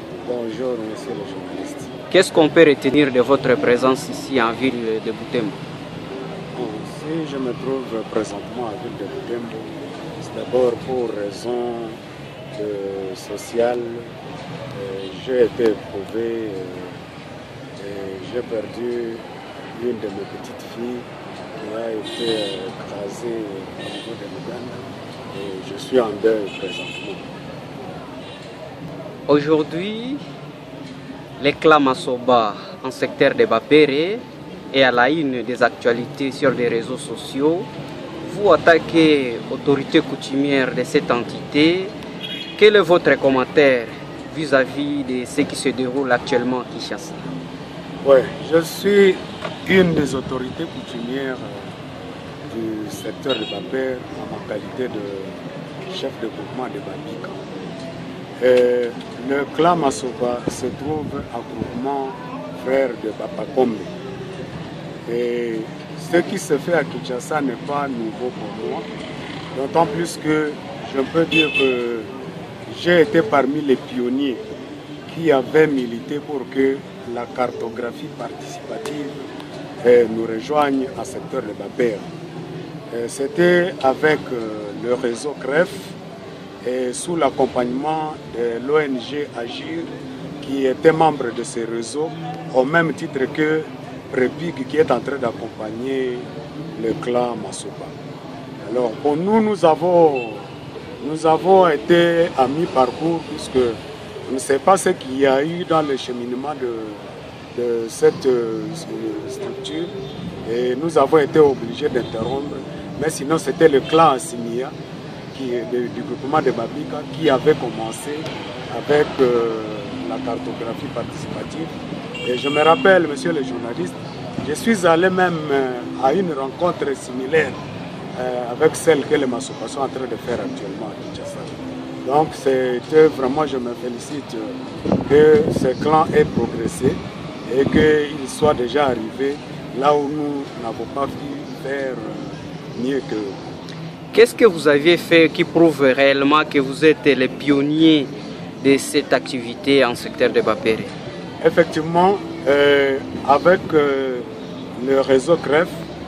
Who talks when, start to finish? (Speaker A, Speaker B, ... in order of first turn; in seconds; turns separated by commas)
Speaker A: 0.2-1.9, Speaker B: 2.1-5.6, Speaker A: 6.5-12.0, Speaker A: 12.5-14.1, Speaker A: 14.7-17.0, Speaker A: 17.8-27.3, Speaker B: 29.3-30.2, Speaker B: 31.4-37.7, Speaker B: 38.2-41.9, Speaker B: 42.6-47.3, Speaker A: 48.0-51.7, Speaker A: 52.5-57.8, Speaker A: 58.4-63.9, Speaker A: 65.1-68.9, Speaker A: 69.5-72.1, Speaker A: 72.7-74.4, Speaker A: 75.1-79.3, Speaker A: 79.8-82.1, Speaker A: 82.9-86.0, Speaker A: 86.6-89.9, Speaker A: 90.4-98.0, Speaker A: 98.6-109.9, Speaker A: 110.4-114.8, Speaker A: 115.3-127.6, Speaker A: 128.1-143.4, Speaker B: 144.1-150.9, Speaker A: 151.4-155.8